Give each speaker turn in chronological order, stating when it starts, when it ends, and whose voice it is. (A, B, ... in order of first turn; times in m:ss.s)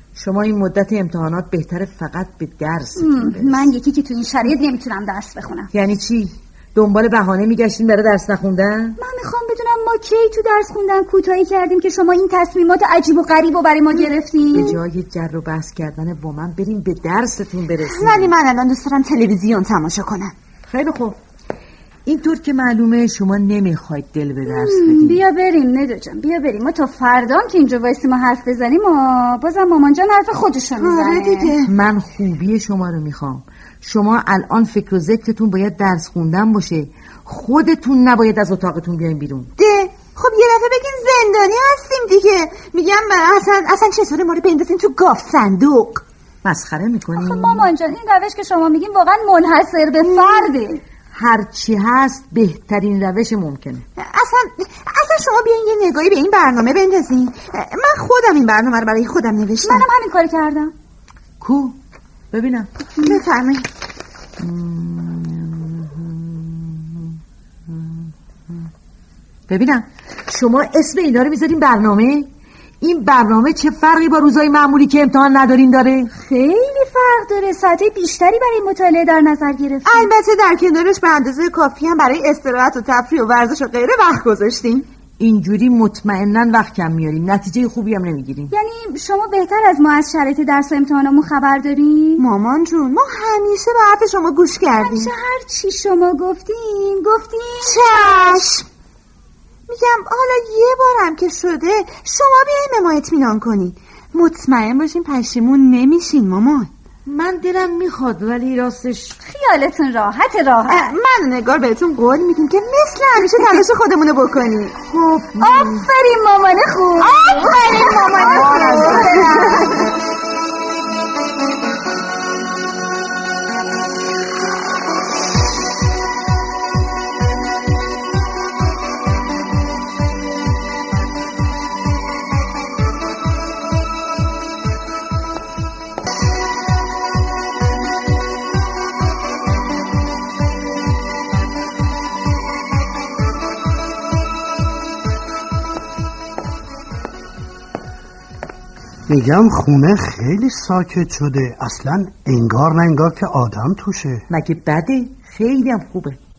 0:00.2-0:03.7 A
0:03.0-0:05.7 B
0:05.7-0:09.0 A
0:09.0-0:14.8 B
0:14.5-0:18.3 A
0:17.8-0:20.4 C
0:20.7-0:21.2 A
0:22.1-0:25.2 A
0:24.4-0:31.6 B
0:30.8-0:31.7 C
0:31.6-0:39.5 A
0:39.6-0:46.0 C
0:46.4-0:47.7 A
0:47.2-0:50.8 B
0:50.0-0:50.5 C
0:51.1-0:53.8 A
0:54.0-0:59.9 C
0:59.6-1:00.7 B
1:01.4-1:01.8 A
1:02.3-1:02.7 A
1:03.0-1:03.7 C
1:04.4-1:07.2 A
1:07.7-1:08.1 A
1:09.5-1:12.3 A
1:12.8-1:16.1 A
1:16.1-1:20.1 B
1:19.9-1:24.9 C
1:25.2-1:28.5 A
1:28.5-1:32.2 B
1:32.2-1:35.1 C
1:34.8-1:38.3 B
1:37.6-1:38.7 C
1:39.7-1:46.7 C
1:47.0-1:49.2 A
1:49.2-1:50.9 B
1:50.7-1:54.8 C
1:54.9-1:55.9 A
1:55.4-1:59.8 B
1:57.0-1:59.9 C
2:29.1-2:34.3 D
2:34.3-2:36.2 A